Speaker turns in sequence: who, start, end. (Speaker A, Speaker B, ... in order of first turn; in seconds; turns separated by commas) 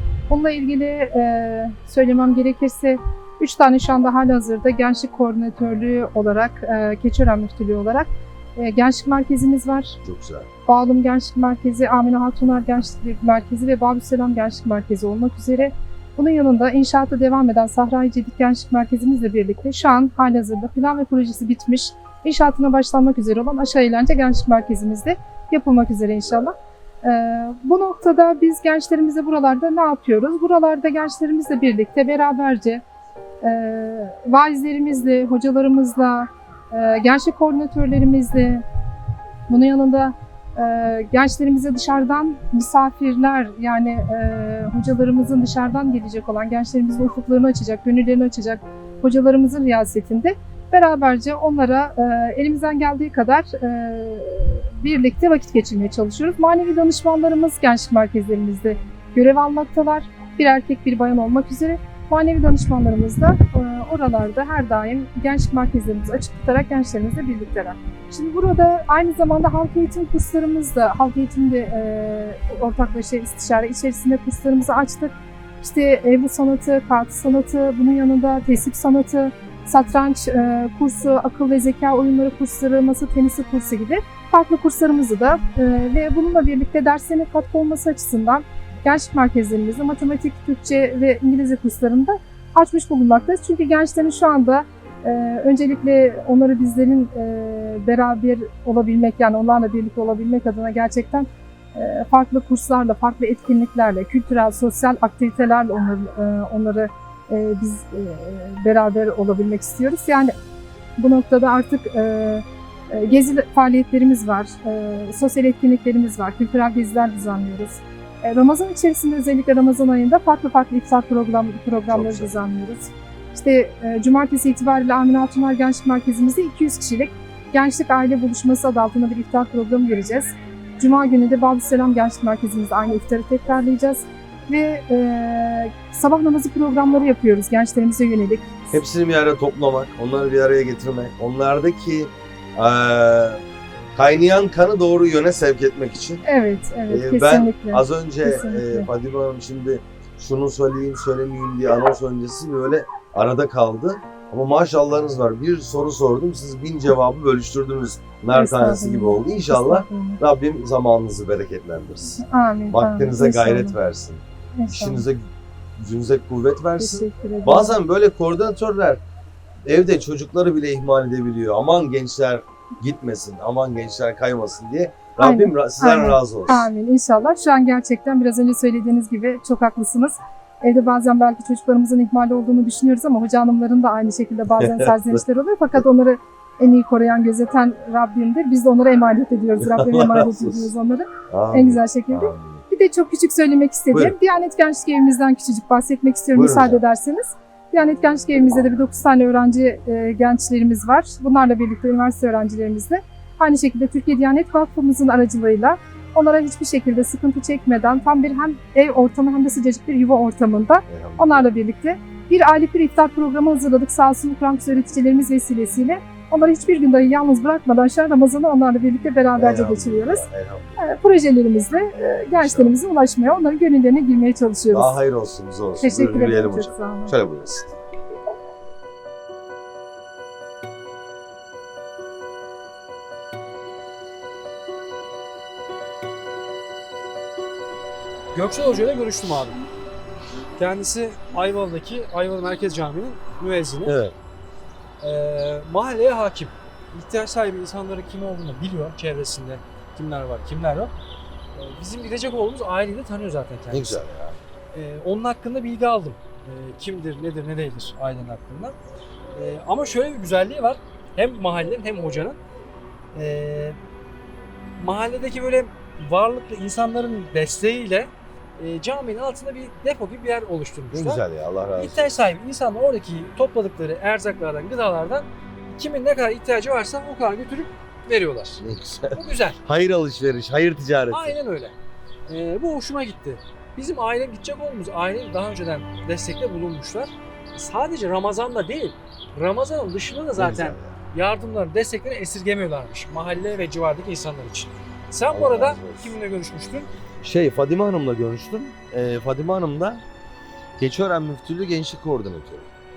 Speaker A: 0.3-10.0, Speaker B: 10.0-10.5, Speaker A: 10.7-32.8, Speaker A: 33.4-38.6, Speaker A: 39.5-110.3, Speaker A: 111.0-138.8, Speaker B: 121.9-122.3, Speaker B: 138.7-143.4, Speaker B: 144.0-146.2, Speaker A: 146.2-148.9, Speaker B: 146.9-162.2, Speaker A: 158.3-160.2, Speaker A: 162.2-163.8, Speaker B: 162.7-165.3, Speaker A: 164.6-165.1, Speaker B: 165.8-169.0, Speaker A: 166.8-167.8, Speaker B: 169.7-176.7, Speaker A: 175.2-220.2, Speaker B: 184.6-185.2, Speaker B: 189.6-190.7, Speaker B: 191.3-192.6, Speaker B: 196.3-196.8, Speaker B: 210.9-211.5, Speaker B: 219.4-220.8, Speaker A: 220.8-224.9, Speaker B: 222.3-222.8, Speaker B: 224.7-227.7, Speaker A: 225.8-227.1, Speaker C: 238.3-239.6, Speaker C: 240.6-244.0, Speaker B: 243.8-244.2, Speaker C: 245.0-250.9, Speaker C: 251.5-254.1, Speaker B: 253.7-254.4, Speaker C: 254.7-258.8, Speaker C: 259.4-262.4, Speaker C: 263.1-263.8, Speaker C: 264.8-271.2, Speaker B: 270.9-272.3, Speaker C: 271.8-278.6, Speaker B: 278.6-281.4, Speaker C: 279.1-279.6, Speaker C: 281.1-281.8, Speaker C: 282.3-296.9, Speaker B: 290.4-291.0, Speaker B: 295.3-296.2, Speaker B: 297.2-300.0, Speaker B: 300.8-302.7